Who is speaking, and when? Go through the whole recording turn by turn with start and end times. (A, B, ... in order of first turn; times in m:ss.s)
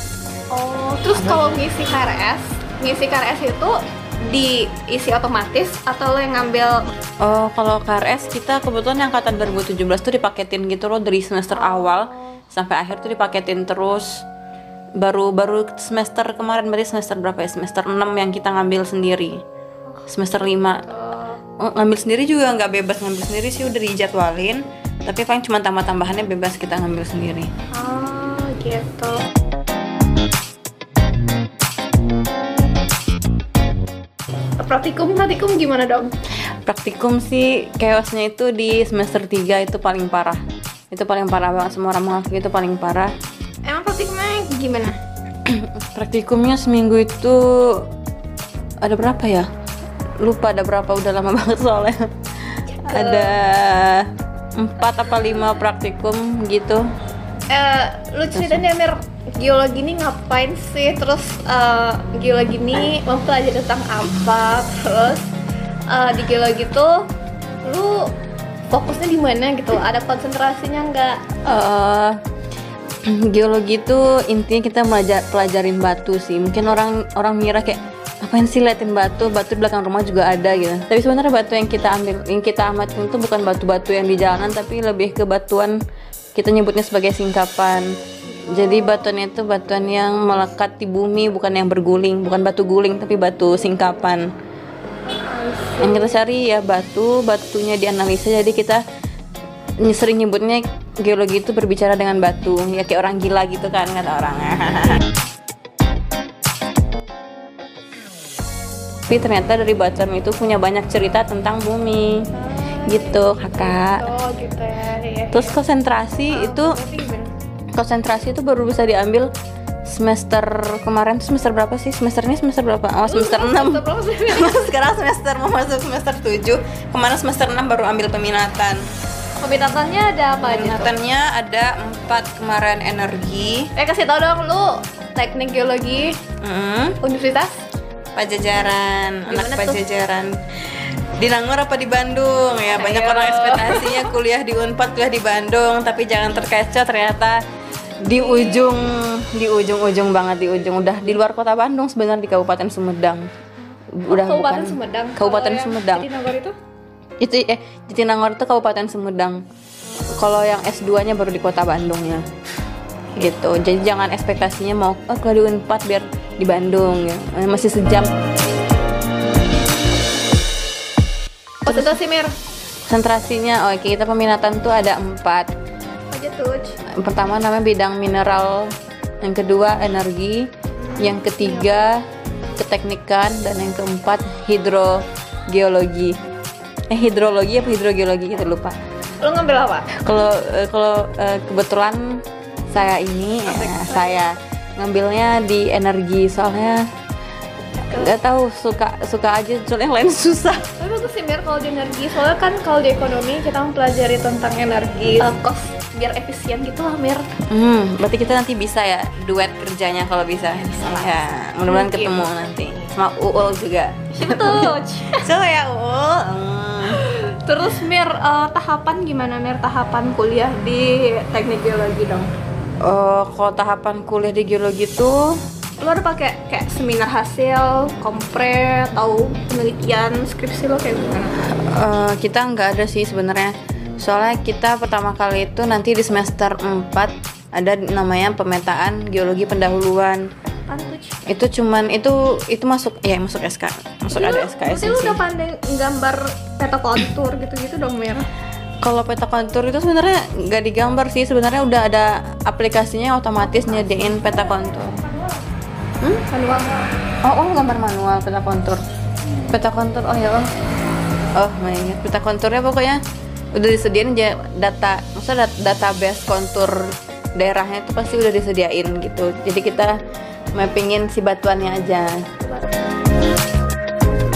0:00.5-0:06.8 A
0:01.1-0:01.6 B
0:07.2-0:14.2 B
0:11.5-0:12.2 A
0:15.0-0:19.4 B
0:20.1-0:20.9 B
0:20.6-0:21.4 A
0:21.6-0:27.5 B
0:27.7-0:29.2 A
0:34.6-0:36.1 A
0:36.6-0:40.4 B
0:40.9-0:43.1 B
0:43.7-0:45.0 A
0:45.5-0:47.8 B
0:48.8-0:49.5 B
0:50.2-0:56.9 B
0:52.8-0:53.3 A
0:57.5-1:05.3 A
0:58.3-0:58.6 B
1:05.9-1:06.9 A
1:07.6-1:08.1 A
1:08.7-1:11.2 A
1:11.5-1:12.2 B
1:13.1-1:25.8 B
1:26.4-1:27.9 B
1:28.5-1:34.3 B
1:28.5-1:29.0 A
1:35.1-1:36.2 A
1:35.8-1:38.8 B
1:39.8-1:45.0 B
1:49.1-1:52.3 B
1:52.4-1:55.5 A
1:52.8-1:54.0 B
1:55.3-1:56.8 B
1:56.3-1:57.3 A
1:57.7-1:59.3 B
1:59.9-2:08.8 B
2:03.1-2:04.6 A
2:09.4-2:11.0 A
2:10.4-2:13.7 B
2:13.8-2:16.2 A
2:16.4-2:17.0 B
2:17.0-2:17.5 A
2:18.2-2:20.3 B
2:19.3-2:19.8 A
2:21.2-2:27.4 B
2:22.7-2:24.1 A
2:28.0-2:33.3 B
2:28.1-2:28.8 A
2:34.0-2:36.1 B
2:34.1-2:36.6 A
2:37.2-2:39.4 B
2:40.2-2:42.2 B
2:43.2-2:48.1 B
2:51.6-2:52.3 A
2:51.7-2:52.0 B
2:52.9-2:55.5 B
2:56.1-2:56.8 A
2:57.0-2:58.7 B
2:59.2-3:00.5 B
3:00.9-3:01.8 A
3:01.0-3:02.0 B
3:02.6-3:06.2 B
3:06.9-3:08.8 B
3:09.2-3:09.9 A
3:10.0-3:16.9 B
3:13.5-3:14.2 A
3:17.9-3:18.1 A
3:17.9-3:20.7 B
3:20.8-3:27.2 A
3:27.5-3:37.0 B
3:30.6-3:31.1 A
3:31.7-3:32.3 A
3:34.1-3:35.2 A
3:36.9-3:42.3 A
3:42.8-3:45.4 B
3:45.8-3:51.4 A
3:51.6-4:00.2 B
4:00.7-4:01.2 A
4:01.3-4:05.2 B
4:04.1-4:08.3 A
4:08.8-4:15.0 B
4:13.4-4:15.4 A
4:16.3-4:16.8 A
4:17.2-4:18.8 B
4:19.5-4:20.5 B
4:21.4-4:23.0 B
4:23.6-4:30.0 B
4:30.6-4:32.3 B